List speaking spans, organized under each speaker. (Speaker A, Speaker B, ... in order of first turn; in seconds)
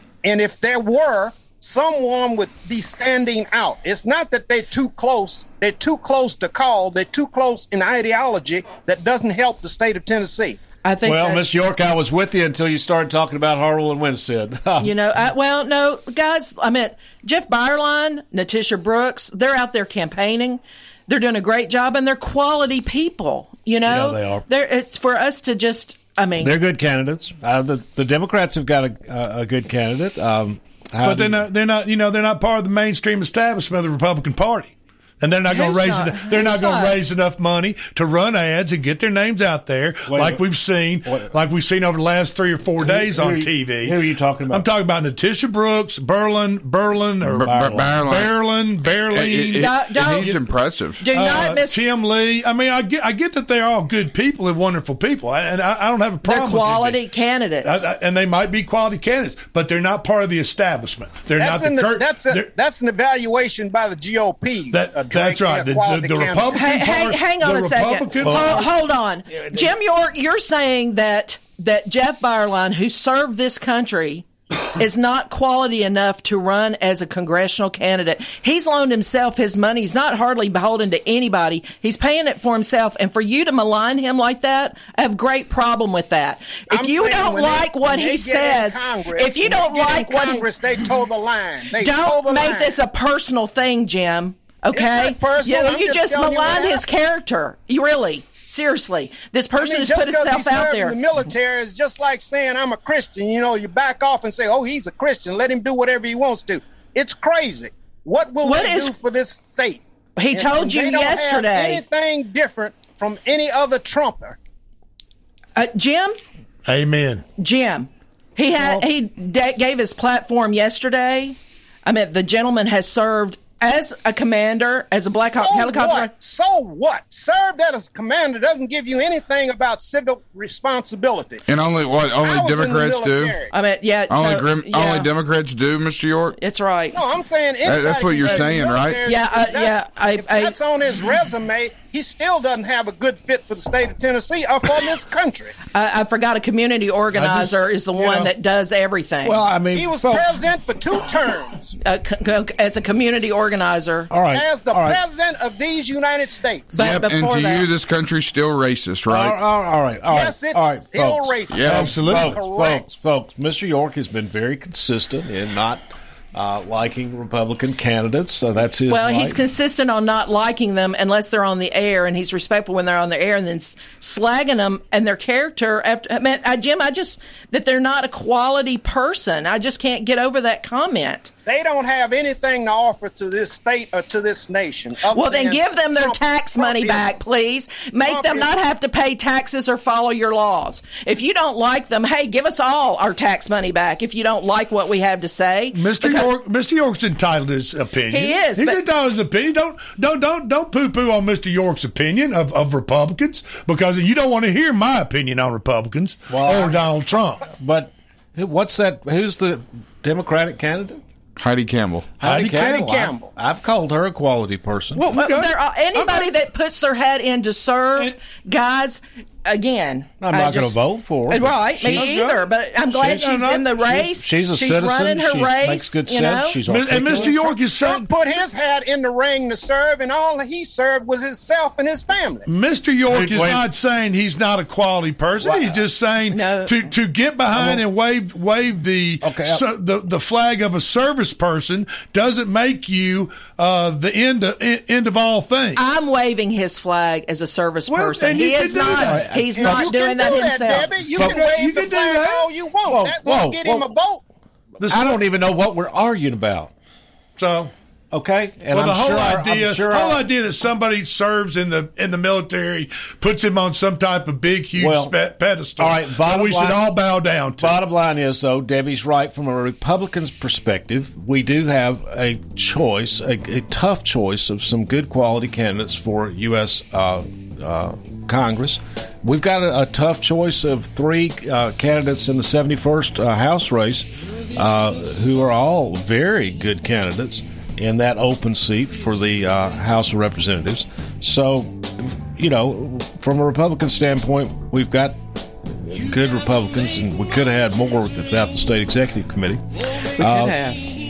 Speaker A: 0.2-10.6, 61.4-66.5, 86.7-92.7, 94.7-96.8, 99.6-114.4, 125.3-131.4, 132.2-133.5, 136.9-145.5, 149.7-151.7, 154.3-156.7, 160.1-162.9, 181.4-187.1, 188.1-188.5, 212.5-213.3, 227.7-232.4, 249.6-254.2
Speaker B: 10.8-11.6, 14.8-26.5, 35.5-37.0, 49.5-50.4, 51.0-51.8, 56.2-57.8, 66.5-90.5, 91.8-101.0, 108.4-108.9, 110.2-111.8, 115.5-116.2, 117.4-126.1, 133.5-135.1, 136.4-137.0, 139.1-140.5, 145.7-149.4, 151.8-154.1, 156.7-157.7, 168.9-181.3, 185.1-196.3, 198.1-198.8, 214.9-220.8, 221.3-226.6, 236.3-236.8, 245.8-250.9, 300.1-300.8
Speaker C: 11.0-14.9, 23.8-24.4, 26.4-31.5, 40.0-40.5, 41.0-41.3, 42.8-44.7, 47.3-48.0, 68.2-68.6, 69.3-69.7, 149.2-150.4, 154.1-155.0, 159.1-169.4, 206.3-206.9, 207.6-211.0, 212.2-215.0, 220.2-222.2, 223.9-227.4, 233.1-233.7, 235.4-235.8, 237.5-237.8, 239.2-239.6, 248.7-249.9, 251.2-251.4, 252.9-253.9, 254.8-256.7, 258.1-260.3, 264.8-265.2, 265.8-299.6, 300.2-300.6
Speaker D: 31.0-44.0, 44.5-50.3, 51.1-57.0, 57.6-62.5, 64.7-68.6, 116.7-117.2, 147.1-148.3, 161.7-162.4, 195.7-207.4, 212.2-212.7, 215.0-216.3, 221.9-223.7, 226.7-228.1, 232.4-245.8, 247.9-249.4, 251.1-252.5, 254.8-255.2, 257.4-257.7, 258.7-267.8
Speaker E: 47.2-48.5, 49.0-51.0, 131.5-133.4, 134.1-136.3, 137.6-139.1, 156.7-159.4, 161.5-161.9, 211.4-212.2